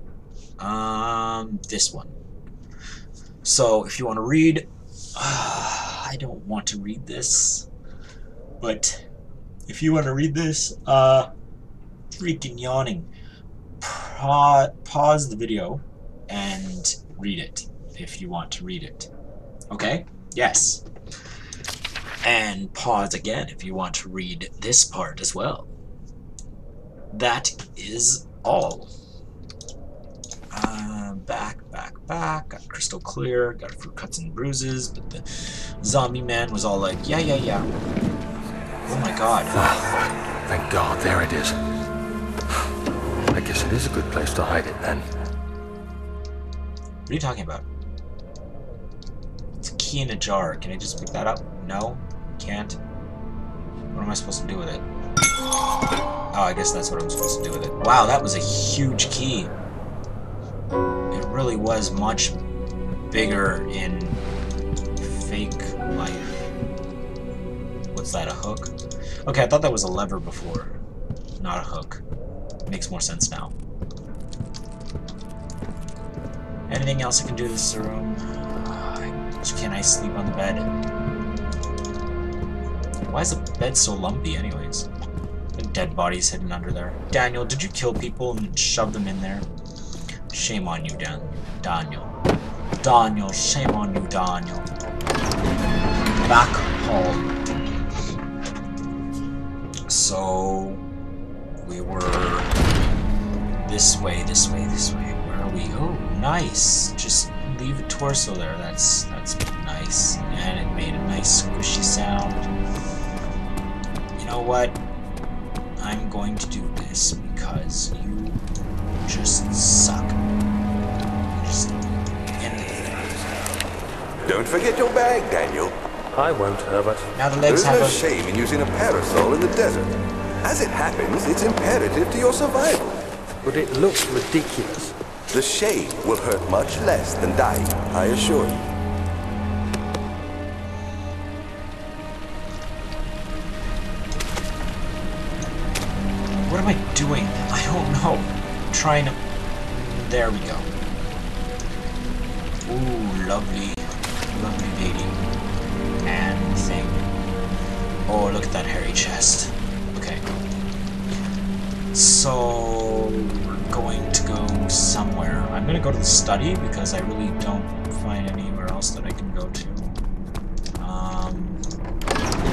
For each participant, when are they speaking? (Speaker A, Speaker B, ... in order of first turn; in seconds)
Speaker A: 0.6-2.1, 3.4-7.7, 8.6-9.1, 9.7-11.3, 12.1-13.1, 13.8-19.1, 19.7-20.8, 22.2-25.7, 27.1-28.9, 30.5-37.7, 38.9-39.6, 47.1-47.6, 49.6-52.8, 53.9-54.9, 56.3-59.5, 61.1-62.4, 63.1-64.2, 65.0-66.3, 67.9-68.7, 69.2-70.8, 71.4-72.0, 72.7-73.5, 76.7-80.7, 83.0-84.9, 85.5-89.5, 90.3-92.2, 92.8-94.7, 96.2-97.5, 99.9-100.8, 101.6-102.5, 103.6-112.5, 114.2-114.8, 115.8-118.4, 119.0-120.2, 121.3-123.2, 127.1-128.0, 146.4-150.7, 152.6-155.2, 156.0-157.1, 158.1-160.3, 161.9-170.0, 170.8-171.6
Speaker B: 39.6-41.6, 43.3-45.1, 126.1-127.1, 133.4-134.9
Speaker C: 124.2-125.7, 127.5-129.9, 130.4-132.9, 135.3-138.6